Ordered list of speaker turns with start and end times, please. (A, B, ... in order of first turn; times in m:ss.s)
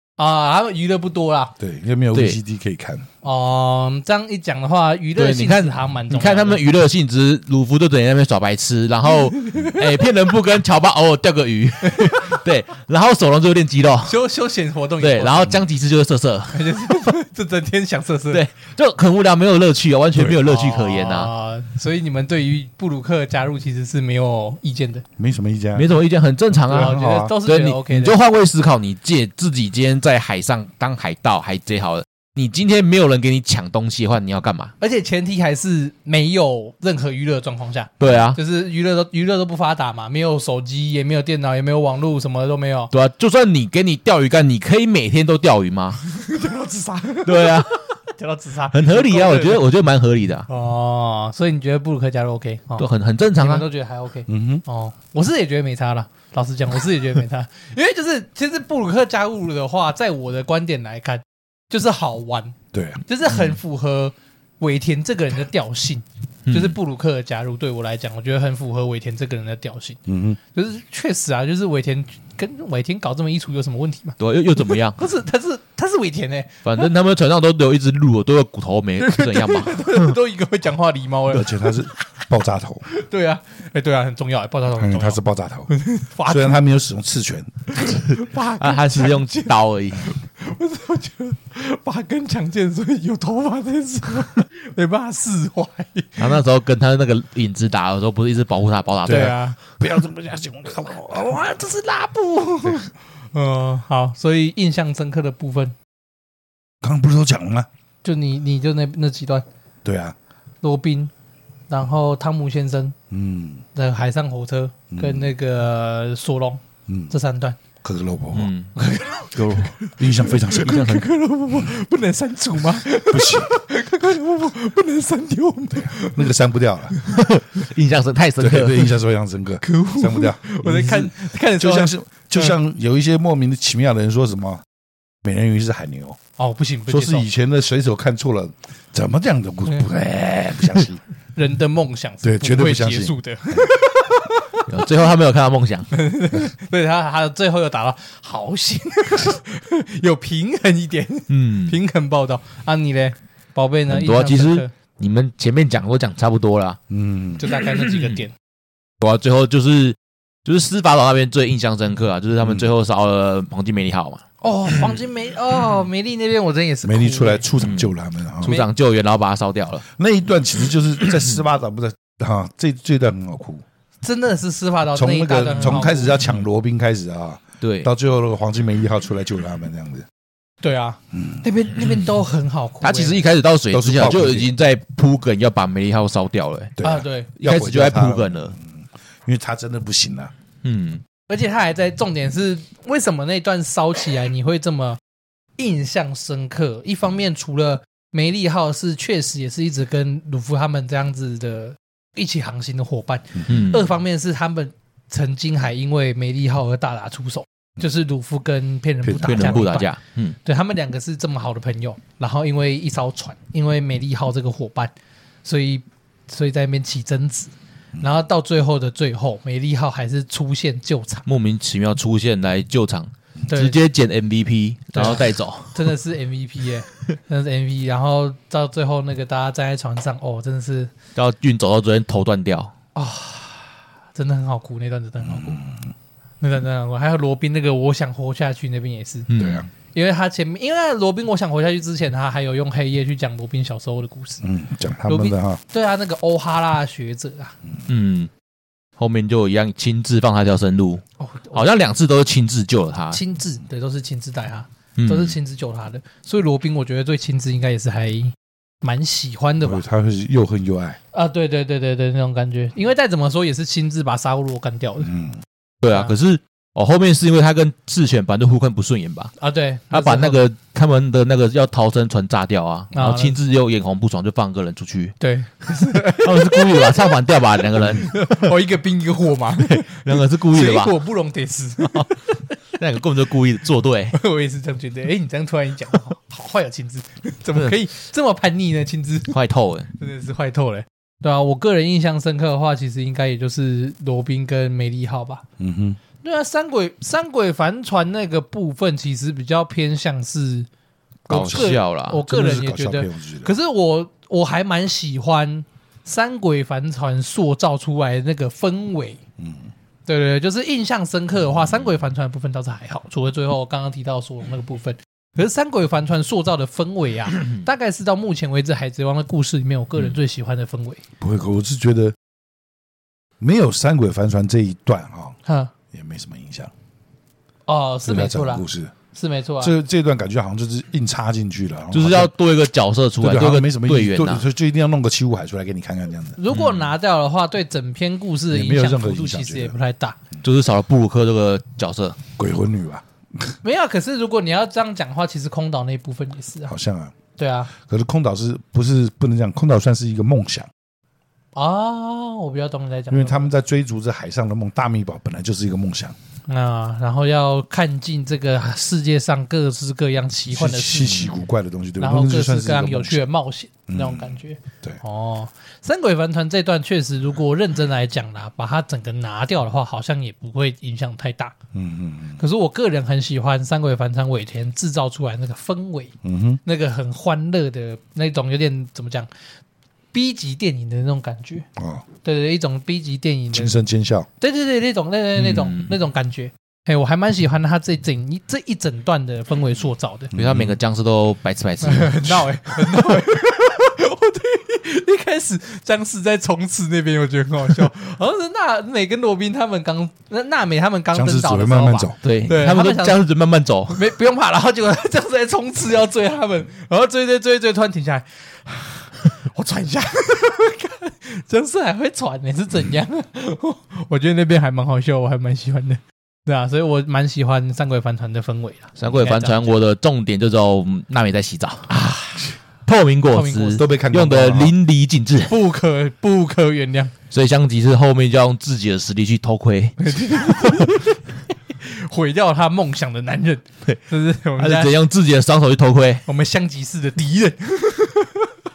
0:00.2-0:01.5 A
0:01.6-0:03.0 B
0:03.2-0:06.6 A
0:05.2-0:14.2 C
0:09.0-0:10.0 A
0:11.8-0:12.4 A
0:14.0-0:15.6 A
0:15.0-0:16.9 C
0:16.5-0:18.4 A
0:18.3-0:21.3 C
0:20.1-0:20.4 B
0:20.4-0:25.0 A
0:25.2-0:25.9 B
0:25.8-0:34.7 C
0:26.6-0:27.3 B
0:26.7-0:28.2 A
0:34.8-0:42.9 A
0:38.0-0:38.4 C
0:42.9-0:46.0 C
0:46.0-0:49.6 A
0:47.2-0:47.7 C
0:48.7-0:50.5 C
0:50.5-1:10.0 A
0:52.8-0:53.7 C
0:54.3-0:54.6 B
1:02.7-1:03.0 B
1:06.4-1:06.8 C
1:10.1-1:10.4 B
1:10.5-1:14.2 A
1:14.2-1:15.0 C
1:14.9-1:16.9 A
1:16.6-1:20.2 C
1:19.0-1:22.2 A
1:21.3-1:22.8 B
1:22.9-1:26.6 A
1:24.7-1:25.7 B
1:26.2-1:27.5 B
1:27.7-1:36.4 A
1:28.1-1:30.1 C
1:36.2-1:39.4 C
1:39.0-1:39.6 A
1:39.0-1:41.4 B
1:41.0-1:45.7 A
1:46.8-1:47.7 B
1:48.0-1:49.4 A
1:49.8-1:50.2 B
1:50.6-1:51.1 A
1:51.7-1:53.0 A
1:53.1-1:53.6 B
1:53.7-1:57.6 A
1:54.9-1:55.3 B
1:57.8-1:58.5 B
1:58.3-1:58.7 C
1:58.7-2:06.3 A
1:59.3-1:59.8 C
2:00.0-2:01.0 B
2:00.5-2:01.1 C
2:03.0-2:03.5 B
2:05.7-2:06.9 B
2:06.9-2:07.2 A
2:07.1-2:08.9 C
2:08.4-2:14.6 B
2:09.6-2:12.6 A
2:15.2-2:16.2 B
2:16.4-2:17.3 A
2:16.9-2:21.0 B
2:21.4-2:24.7 A
2:22.2-2:23.7 B
2:24.7-2:25.9 C
2:25.9-2:34.7 A
2:31.3-2:31.8 C
2:33.9-2:36.8 C
2:36.9-2:37.5 B
2:37.4-2:38.3 A
2:37.6-2:38.2 C
2:39.0-2:44.2 C
2:44.4-2:47.5 A
2:46.8-2:48.6 B
2:47.6-2:47.9 C
2:48.4-2:49.8 C
2:49.9-2:53.6 B
2:54.0-2:56.2 A
2:54.9-3:00.1 B
2:55.6-2:56.4 C
2:57.6-2:57.9 C
3:00.6-3:03.2 A
3:01.8-3:02.1 C
3:02.8-3:06.8 C
3:03.7-3:04.5 B
3:06.8-3:08.7 B
3:06.8-3:07.3 A
3:07.4-3:08.6 C
3:09.2-3:10.3 B
3:10.6-3:11.0 C
3:11.3-3:15.0 A
3:15.6-3:34.9 A
3:23.5-3:23.8 C
3:29.0-3:29.7 B
3:29.2-3:30.4 C
3:35.4-3:41.2 A
3:41.2-3:45.9 C
3:43.5-3:43.8 A
3:44.9-3:50.9 A
3:51.2-3:52.7 C
3:52.9-3:55.6 A
3:55.3-3:55.8 B
3:56.4-3:59.3 A
3:59.3-3:59.7 C
3:59.4-3:59.7 B
3:59.9-4:04.4 A
4:04.4-4:05.6 B
4:05.0-4:07.6 A
4:07.9-4:08.3 C
4:09.0-4:13.2 C
4:11.2-4:11.6 A
4:13.1-4:19.8 A
4:15.0-4:15.4 C
4:19.6-4:21.0 B
4:21.1-4:25.1 A
4:25.0-4:25.4 B
4:25.8-4:29.3 C
4:29.4-4:30.4 A
4:29.9-4:35.2 C
4:32.9-4:33.4 A
4:35.2-4:37.2 A
4:35.8-4:38.3 C
4:37.7-4:42.5 A
4:39.6-4:41.0 C
4:42.8-4:44.2 C
4:44.1-4:49.4 A
4:49.3-4:49.9 C
4:50.0-4:55.4 A
4:55.6-4:56.0 B
4:56.2-5:00.7 A
5:01.3-5:02.2 C
5:01.3-5:03.5 B
5:01.3-5:09.2 A
5:09.4-5:09.7 B
5:10.1-5:21.0 A
5:21.2-5:22.2 B
5:23.4-5:25.4 B
5:25.4-5:25.7 A
5:25.9-5:26.7 B
5:27.7-5:29.7 A
5:28.0-5:28.9 B
5:29.6-5:32.3 B
5:31.9-5:34.4 C
5:33.2-5:36.4 B
5:36.4-5:40.2 A
5:36.5-5:36.9 C
5:38.5-5:39.7 B
5:40.4-5:42.2 C
5:42.4-5:43.5 B
5:43.6-5:46.7 A
5:46.7-5:47.1 B
5:47.4-5:47.7 A
5:47.7-5:50.7 B
5:51.6-5:53.5 A
5:53.1-5:56.2 B
5:56.5-6:01.3 A
6:00.5-6:03.2 B
6:01.0-6:01.3 C
6:02.0-6:11.6 A
6:03.9-6:05.0 B
6:11.7-6:12.4 B
6:12.4-6:19.3 A
6:16.2-6:16.6 B
6:20.1-6:21.7 A
6:21.8-6:22.0 B
6:22.2-6:23.7 A
6:23.5-6:24.3 B
6:24.4-6:30.3 A
6:25.4-6:25.9 C
6:30.3-6:30.8 B
6:30.4-6:33.2 C
6:31.8-6:43.2 A
6:41.1-6:42.2 B
6:42.2-6:44.1 C
6:43.9-6:59.8 A
6:59.0-7:01.9 C
7:01.9-7:02.5 A
7:02.9-7:05.5 C
7:03.3-7:03.8 A
7:03.8-7:04.7 B
7:05.5-7:07.1 A
7:07.3-7:10.9 C
7:10.0-7:14.9 A
7:14.6-7:16.2 C
7:16.3-7:18.5 A